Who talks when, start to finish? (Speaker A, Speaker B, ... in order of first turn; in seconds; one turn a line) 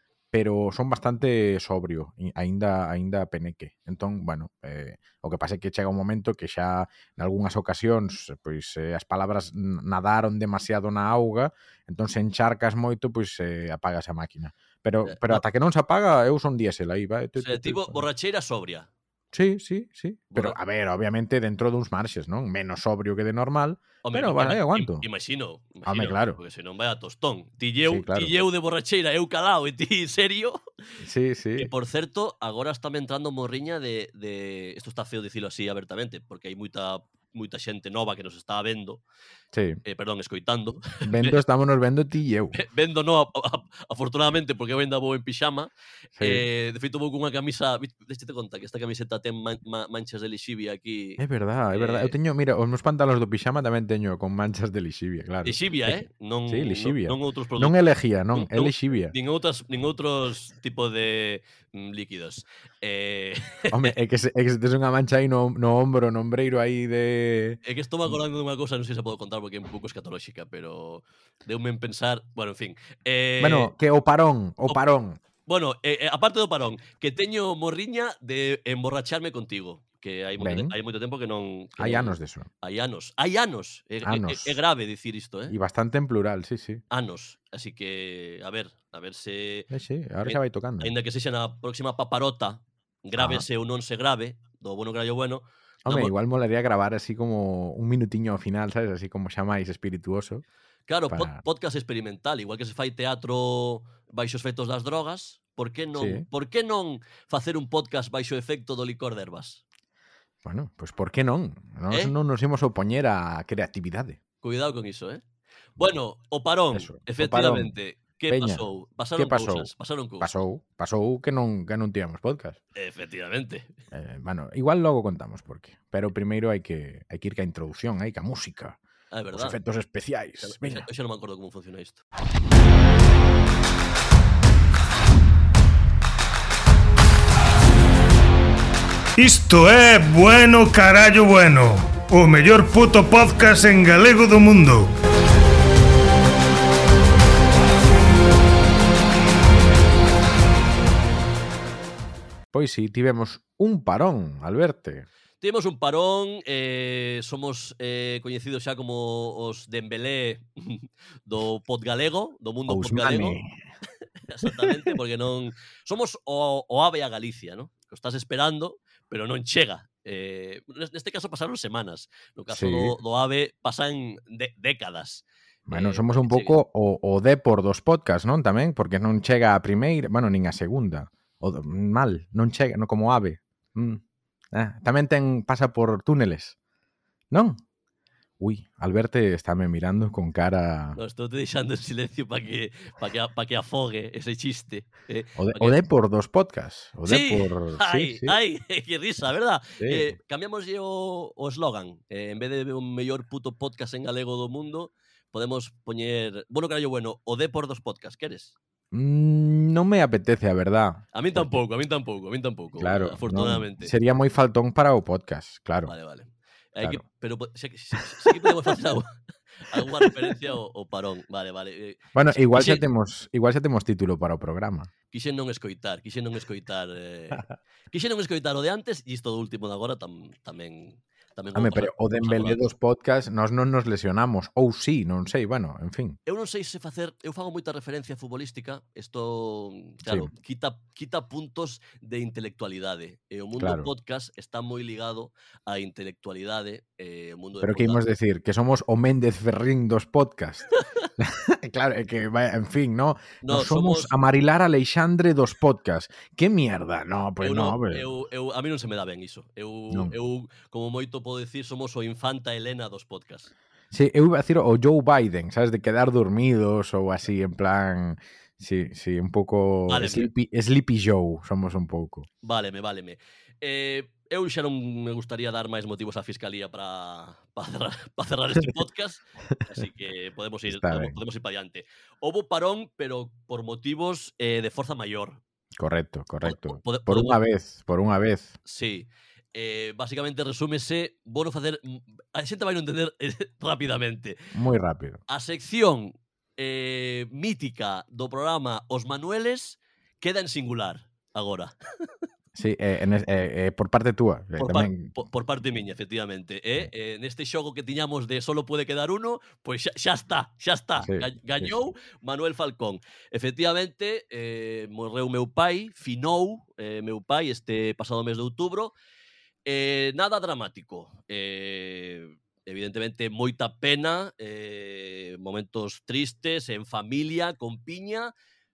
Speaker A: 0.3-18.0
Speaker B: 15.0-15.4
Speaker B: 17.4-18.9
Speaker A: 19.3-25.0
Speaker B: 24.0-30.6
Speaker A: 25.8-26.4
Speaker A: 27.8-28.3
Speaker A: 31.0-31.7
Speaker B: 31.6-39.0
Speaker A: 39.5-39.8
Speaker B: 39.8-41.4
Speaker A: 41.0-42.5
Speaker B: 42.5-51.2
Speaker A: 46.2-46.4
Speaker A: 51.2-59.1
Speaker B: 51.7-52.1
Speaker B: 55.4-57.8
Speaker B: 58.3-63.9
Speaker A: 63.7-67.6
Speaker B: 67.6-73.7
Speaker A: 73.4-75.2
Speaker B: 75.5-85.5
Speaker A: 80.4-80.7
Speaker A: 81.8-82.5
Speaker A: 84.0-84.6
Speaker A: 85.5-86.8
Speaker B: 86.9-89.7
Speaker A: 89.7-90.9
Speaker B: 90.2-96.1
Speaker A: 93.2-93.4
Speaker A: 95.8-100.4
Speaker B: 100.9-109.6
Speaker A: 101.1-101.4
Speaker A: 105.9-106.2
Speaker A: 110.4-114.2
Speaker B: 114.4-115.2
Speaker B: 115.8-120.3
Speaker A: 116.7-117.7
Speaker A: 118.3-118.6
Speaker A: 119.2-122.6
Speaker B: 122.7-123.7
Speaker A: 123.9-128.8
Speaker B: 129.1-129.6
Speaker A: 129.3-130.8
Speaker B: 130.4-132.0
Speaker C: 139.2-144.9
Speaker A: 152.5-155.1
Speaker B: 155.4-163.4
Speaker A: 162.7-163.5
Speaker B: 164.3-176.6
Speaker A: 172.5-172.9
Speaker A: 175.7-184.0
Speaker A: 184.5-186.5
Speaker A: 187.3-187.6
Speaker A: 188.4-191.0
Speaker B: 190.9-195.8
Speaker A: 195.4-198.3
Speaker B: 197.0-208.5
Speaker A: 199.8-200.1
Speaker A: 208.9-211.5
Speaker B: 211.1-213.9
Speaker A: 212.8-215.9
Speaker B: 215.9-219.1
Speaker A: 217.9-218.4
Speaker B: 219.6-222.8
Speaker A: 222.1-224.9
Speaker B: 225.1-232.6
Speaker A: 231.5-236.2
Speaker B: 236.2-248.0
Speaker A: 240.0-240.3
Speaker A: 243.6-243.9
Speaker A: 247.6-250.7
Speaker A: 251.2-258.0
Speaker B: 253.4-254.1
Speaker B: 257.4-263.5
Speaker A: 263.9-272.3
Speaker B: 269.9-270.3
Speaker B: 272.4-285.4
Speaker A: 280.7-281.1
Speaker A: 285.8-288.5
Speaker B: 286.4-287.4
Speaker B: 288.6-294.4
Speaker A: 294.5-295.2
Speaker B: 295.3-302.2
Speaker A: 302.5-305.1
Speaker B: 304.6-318.9
Speaker A: 311.0-311.7
Speaker B: 319.6-328.3